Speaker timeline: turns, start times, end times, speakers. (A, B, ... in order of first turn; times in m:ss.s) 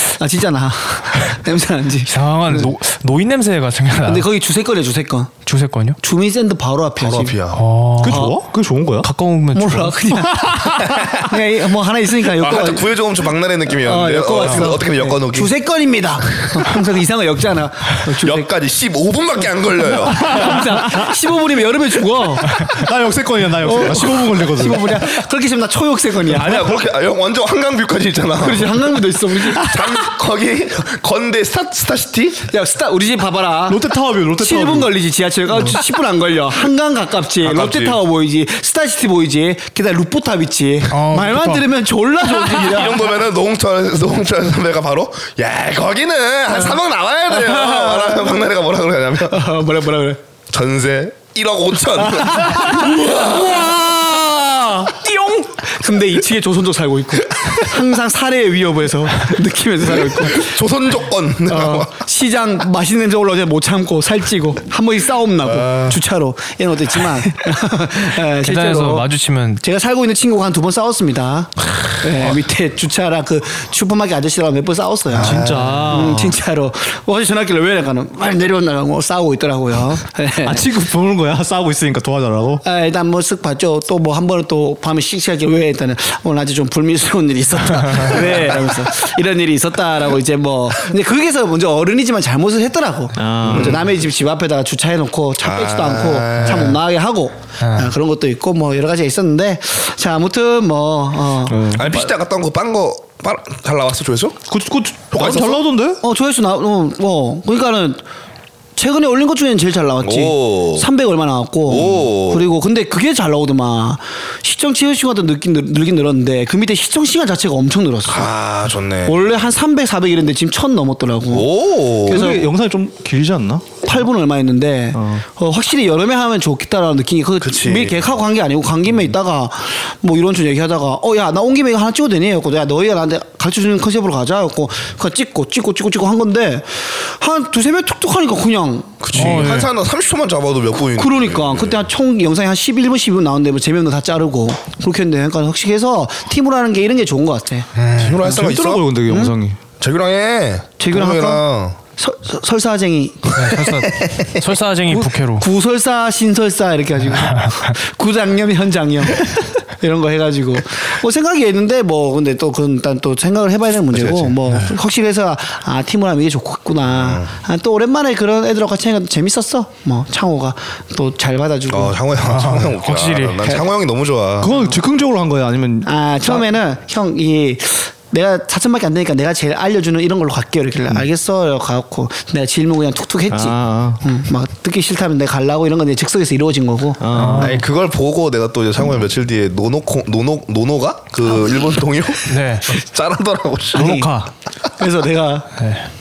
0:00.2-0:02.7 A
0:02.1-0:04.2 B
0:04.0-0:05.3 A
0:05.4-0:06.0 B
0:06.0-0:07.4 A
0:07.0-0:07.6 C
0:07.5-0:08.3 B
0:08.0-0:09.1 D
0:08.1-0:08.4 A
0:09.0-0:10.2 B
0:09.5-0:12.9 A
0:12.2-0:15.5 C
0:13.8-0:18.5 A
0:18.2-0:20.6 C
0:20.0-0:22.6 A
0:22.5-0:25.0 D
0:23.6-0:26.6 A
0:26.3-0:32.4 C
0:28.4-0:29.8 A
0:32.5-0:43.1 A
0:33.7-0:34.9 D
0:37.4-0:38.0 C
0:40.9-0:41.7 B
0:42.4-0:49.4 C
0:47.3-0:48.4 A
0:49.2-0:50.2 A
0:50.5-0:54.0 C
0:52.2-1:00.6 A
1:00.1-1:01.9 C
1:01.5-1:09.1 A
1:05.4-1:06.0 C
1:08.4-1:09.6 B
1:09.6-1:20.6 A
1:15.1-1:16.2 C
1:15.2-1:16.4 D
1:20.4-1:22.6 D
1:22.6-1:42.1 A
1:33.2-1:33.9 D
1:33.4-1:33.9 C
1:35.4-1:36.8 C
1:37.6-1:37.9 B
1:41.5-1:41.9 D
1:41.7-1:44.4 C
1:44.5-1:46.0 D
1:45.1-1:45.6 C
1:46.0-1:48.0 A
1:48.8-1:58.3 A
1:50.0-1:50.9 C
1:51.7-1:52.5 C
1:58.0-1:59.3 C
1:59.0-2:02.5 A
2:01.3-2:02.3 C
2:02.1-2:03.6 D
2:03.8-2:19.4 A
2:04.9-2:05.2 D
2:07.4-2:08.2 C
2:19.0-2:21.8 C
2:19.1-2:19.7 B
2:21.0-2:27.7 A
2:27.8-2:28.2 B
2:27.9-2:28.8 C
2:28.2-2:29.6 D
2:29.1-2:29.3 A
2:29.8-2:31.8 C
2:30.8-2:52.0 A
2:33.4-2:35.4 B
2:37.1-2:37.7 B
2:43.9-2:44.4 C
2:46.9-2:47.3 C
2:51.7-2:54.5 C
2:52.2-2:53.6 B
2:54.4-2:56.4 D
2:55.8-3:07.3 A
3:03.3-3:04.0 D
3:07.0-3:07.6 D
3:07.1-3:07.6 B
3:07.3-3:14.0 C
3:12.2-3:12.7 B
3:13.7-3:14.1 A
3:13.7-3:14.3 B
3:14.8-3:15.6 A
3:15.6-3:15.9 B